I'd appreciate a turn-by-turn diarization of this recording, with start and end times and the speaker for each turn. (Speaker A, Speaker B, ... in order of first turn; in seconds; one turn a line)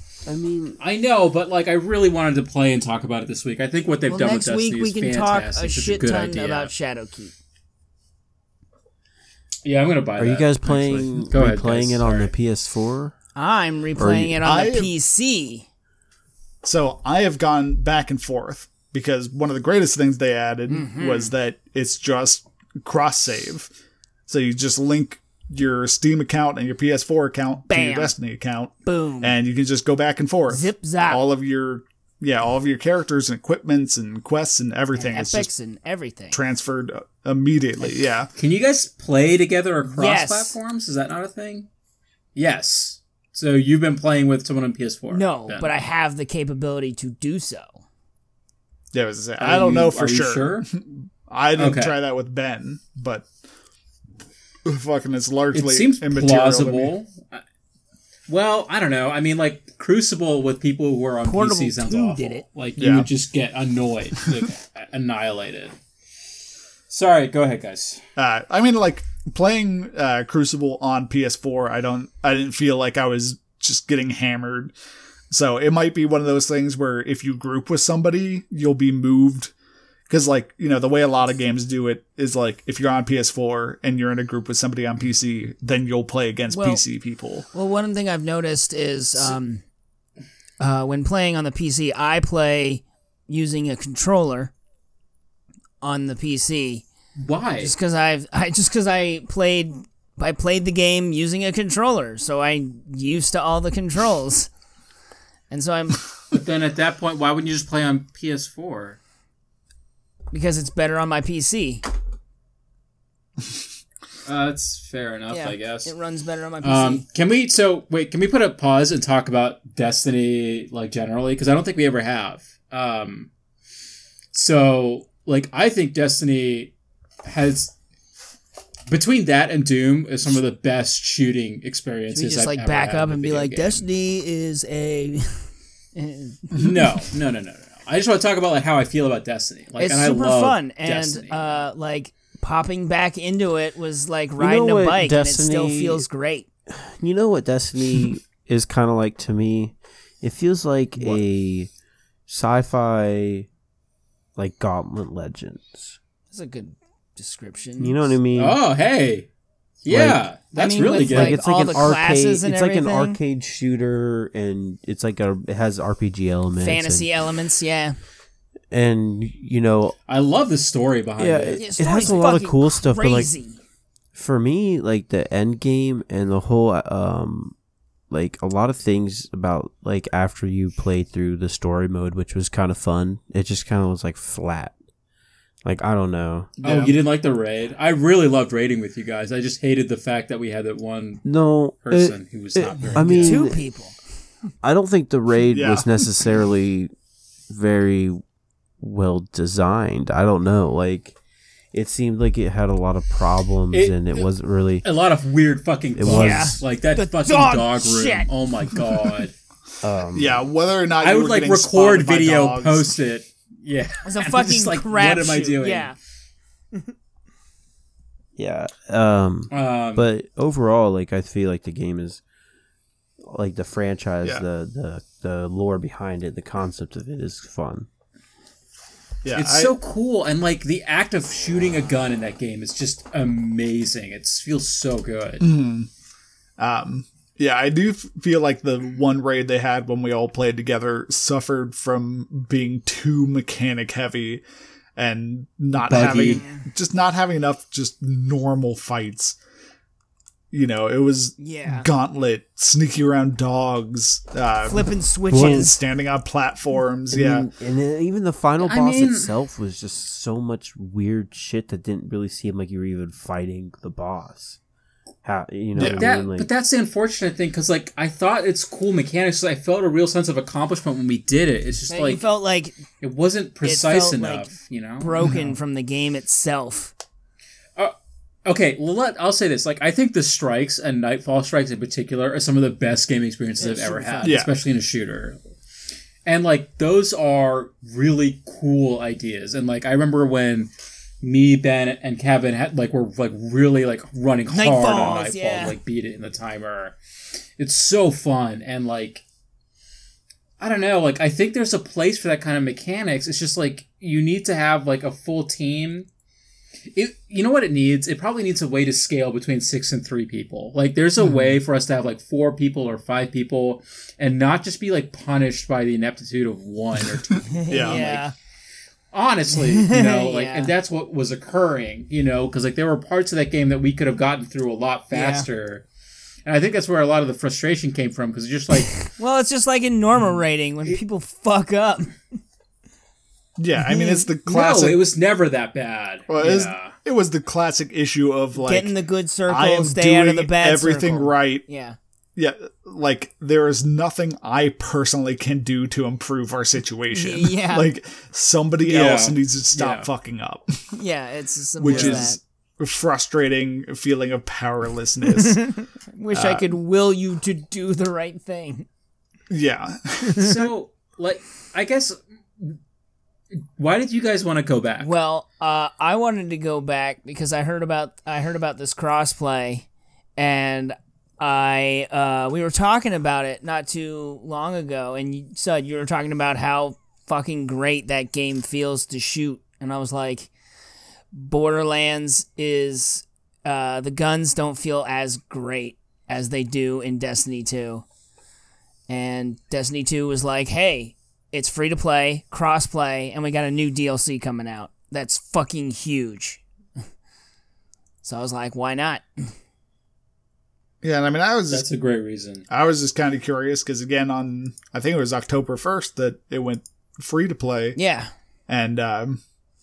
Speaker A: 0.2-0.8
Speaker B: 0.8-6.7
Speaker C: 4.1-7.3
Speaker B: 9.6-12.3
Speaker A: 10.2-13.1
Speaker C: 13.3-15.7
Speaker A: 14.0-14.4
Speaker D: 14.4-14.9
Speaker D: 16.6-23.7
Speaker C: 20.7-21.3
Speaker D: 24.3-35.5
Speaker C: 27.7-28.1
Speaker C: 28.8-29.4
Speaker C: 30.5-31.2
Speaker C: 35.0-36.4
Speaker D: 36.3-38.3
Speaker B: 38.4-41.7
Speaker C: 39.9-40.5
Speaker B: 42.3-45.7
Speaker C: 45.1-47.8
Speaker D: 48.9-53.3
Speaker B: 49.4-50.7
Speaker B: 51.6-51.9
Speaker D: 54.6-56.9
Speaker B: 55.5-57.4
Speaker B: 58.3-65.8
Speaker C: 61.2-62.4
Speaker D: 62.8-63.1
Speaker B: 66.9-68.0
Speaker D: 68.2-74.7
Speaker D: 75.3-79.5
Speaker D: 80.1-87.5
Speaker C: 86.5-86.8
Speaker C: 87.5-89.6
Speaker C: 90.6-94.5
Speaker C: 95.8-96.8
Speaker B: 97.2-97.7
Speaker C: 97.6-104.5
Speaker C: 105.5-106.0
Speaker B: 106.3-109.0
Speaker C: 110.3-111.8
Speaker B: 114.2-115.9
Speaker C: 115.3-117.0
Speaker B: 116.6-123.3
Speaker B: 124.3-126.7
Speaker B: 127.2-127.7
Speaker B: 128.9-133.8
Speaker C: 132.1-136.6
Speaker B: 136.5-141.7
Speaker C: 139.8-146.5
Speaker A: 144.4-146.0
Speaker A: 146.7-151.7
Speaker D: 151.0-151.2
Speaker A: 152.3-153.5
Speaker A: 154.3-156.0
Speaker C: 156.3-158.1
Speaker A: 157.8-158.6
Speaker B: 158.3-159.3
Speaker B: 159.8-161.4
Speaker A: 159.9-160.2
Speaker C: 160.6-163.2
Speaker A: 160.8-167.1
Speaker C: 166.6-168.0
Speaker A: 168.7-169.9
Speaker B: 170.1-172.3
Speaker A: 171.2-173.3
Speaker C: 171.6-173.6
Speaker A: 174.1-177.5
Speaker A: 178.1-184.7
Speaker A: 185.6-186.5
Speaker B: 186.6-191.2
Speaker D: 186.6-187.0
Speaker A: 191.2-193.6
Speaker B: 191.8-193.5
Speaker C: 193.2-193.9
Speaker A: 194.6-196.9
Speaker D: 195.5-196.0
Speaker A: 197.5-198.2
Speaker A: 198.8-201.1
Speaker A: 201.7-204.8
Speaker B: 203.7-204.3
Speaker B: 204.8-209.3
Speaker A: 205.9-206.6
Speaker C: 206.1-208.3
Speaker A: 209.8-210.4
Speaker D: 210.1-213.0
Speaker B: 211.0-215.9
Speaker C: 214.0-215.9
Speaker A: 218.4-222.2
Speaker B: 219.5-220.1
Speaker A: 223.3-227.9
Speaker D: 229.2-229.8
Speaker B: 229.3-235.5
Speaker D: 235.4-235.9
Speaker D: 236.6-244.4
Speaker D: 244.9-249.4
Speaker B: 245.8-246.4
Speaker C: 246.2-246.6
Speaker D: 250.5-257.5
Speaker C: 251.4-251.9
Speaker C: 254.6-255.8
Speaker A: 255.3-255.7
Speaker A: 257.1-264.6
Speaker B: 258.6-259.3
Speaker A: 265.2-266.5
Speaker D: 265.8-266.0
Speaker B: 265.8-272.2
Speaker C: 271.9-272.8
Speaker B: 273.0-275.2
Speaker C: 273.6-274.5
Speaker C: 275.0-276.9
Speaker D: 275.2-275.6
Speaker B: 278.4-285.4
Speaker C: 283.6-284.4
Speaker D: 284.2-284.5
Speaker B: 286.2-290.7
Speaker B: 291.2-296.9
Speaker C: 294.5-295.7
Speaker B: 297.6-299.2
Speaker B: 300.6-306.1
Speaker B: 306.9-318.2
Speaker D: 311.2-311.6
Speaker C: 317.5-318.3
Speaker D: 317.7-318.0
Speaker B: 319.1-325.8
Speaker C: 319.6-320.7
Speaker C: 325.1-325.5
Speaker B: 326.4-329.0
Speaker C: 329.0-332.1
Speaker D: 333.6-335.0
Speaker C: 333.8-334.3
Speaker B: 334.4-336.9
Speaker D: 336.3-338.9
Speaker C: 338.6-342.0
Speaker D: 339.5-341.6
Speaker D: 342.4-350.7
Speaker C: 347.1-347.9
Speaker B: 348.8-350.1
Speaker C: 350.9-352.4
Speaker D: 351.8-355.6
Speaker B: 351.9-352.2
Speaker C: 355.3-358.9
Speaker D: 356.3-356.7
Speaker D: 359.5-360.6
Speaker B: 360.4-362.8
Speaker B: 363.8-365.1
Speaker C: 365.0-380.5
Speaker C: 381.3-388.0
Speaker C: 389.1-396.6
Speaker C: 398.2-399.5
Speaker D: 401.0-401.9
Speaker B: 401.7-402.6
Speaker D: 402.7-408.0
Speaker C: 407.9-408.3
Speaker D: 408.7-409.4